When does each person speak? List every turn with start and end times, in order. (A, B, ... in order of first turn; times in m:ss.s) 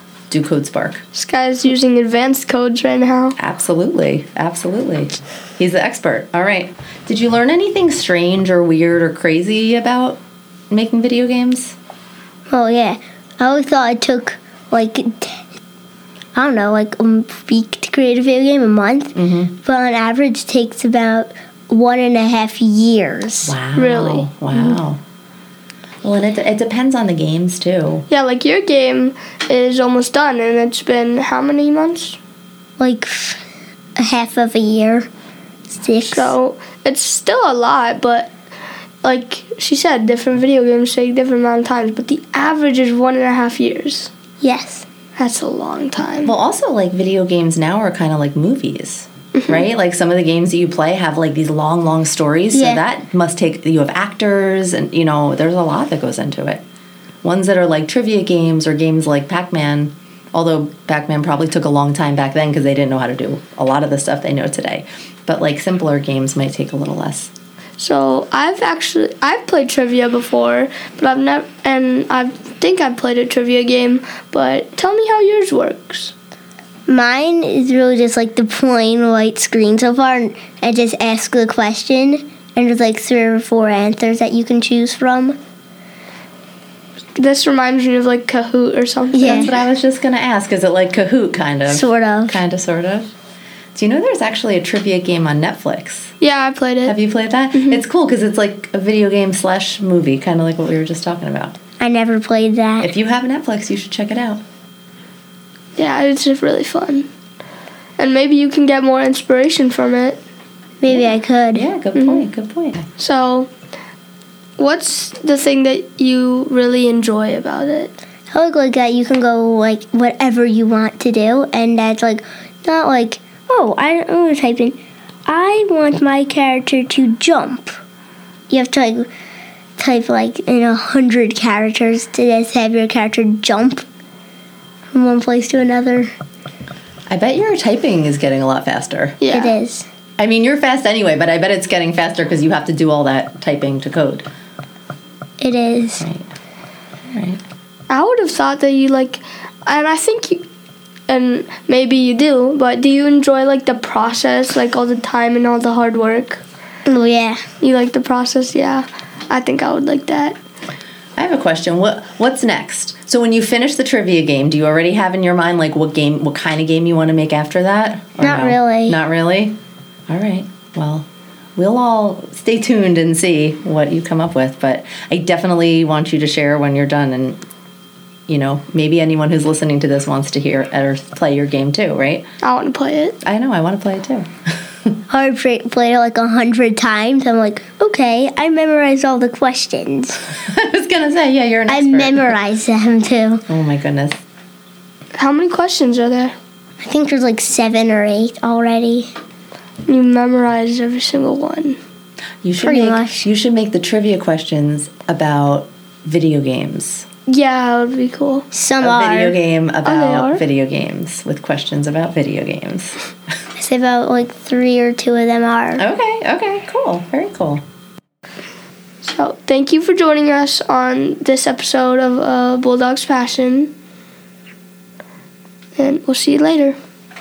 0:00.3-0:01.0 A
0:01.1-0:03.4 B
0:03.4-0:10.2 A
0:10.7-0:11.8 A
0:12.5-0:15.5 C
0:16.4-0:23.6 C
0:19.2-0:19.6 A
0:23.5-0:25.0 A
0:23.8-0:24.3 B
0:26.0-0:28.1 A
0:28.1-0:32.2 B
0:32.8-0:33.4 C
0:34.0-0:35.1 C
0:35.7-0:36.4 C
0:36.1-0:38.3 B
0:39.0-0:44.1 B
0:44.4-0:44.8 C
0:45.2-0:46.3 B
0:46.2-0:56.6 A
0:49.4-0:49.6 B
0:52.5-0:52.8 C
0:57.2-1:07.3 A
1:07.8-1:16.1 B
1:16.9-1:25.4 C
1:27.2-1:29.5 B
1:29.1-1:29.5 C
1:29.3-1:33.1 A
1:31.7-1:32.4 C
1:33.8-1:36.1 A
1:36.2-1:36.9 B
1:36.9-1:41.6 A
1:41.8-1:42.9 C
1:42.8-1:44.4 A
1:45.8-1:47.1 B
1:48.0-1:50.2 B
1:50.8-1:51.7 C
1:50.9-1:52.9 A
1:52.0-1:52.3 B
1:53.0-1:53.5 B
1:54.6-1:57.9 B
1:58.3-2:07.8 C
2:08.5-2:09.1 C
2:09.8-2:13.9 C
2:14.9-2:16.1 C
2:17.1-2:19.2 A
2:19.2-2:19.5 B
2:19.3-2:19.9 C
2:20.2-2:24.3 A
2:25.4-2:26.1 C
2:26.0-2:26.3 A
2:27.1-2:27.4 A
2:27.9-2:30.4 B
2:31.1-2:36.4 B
2:36.9-2:37.4 C
2:37.6-2:40.4 B
2:41.2-2:49.6 A
2:48.2-2:49.0 C
2:50.1-2:57.4 A
2:58.3-3:02.3 A
3:02.4-3:03.2 B
3:03.2-3:04.3 A
3:05.1-3:10.2 C
3:10.4-3:12.4 A
3:11.7-3:13.4 C
3:13.5-3:14.2 A
3:15.2-3:16.4 B
3:16.8-3:19.1 C
3:19.9-3:21.8 B
3:22.4-3:27.1 A
3:22.6-3:23.2 C
3:27.3-3:28.5 B
3:28.5-3:29.4 C
3:28.8-3:33.0 A
3:29.8-3:30.4 B
3:33.6-3:35.8 C
3:35.8-3:37.6 A
3:39.0-3:43.7 B
3:45.8-3:46.8 B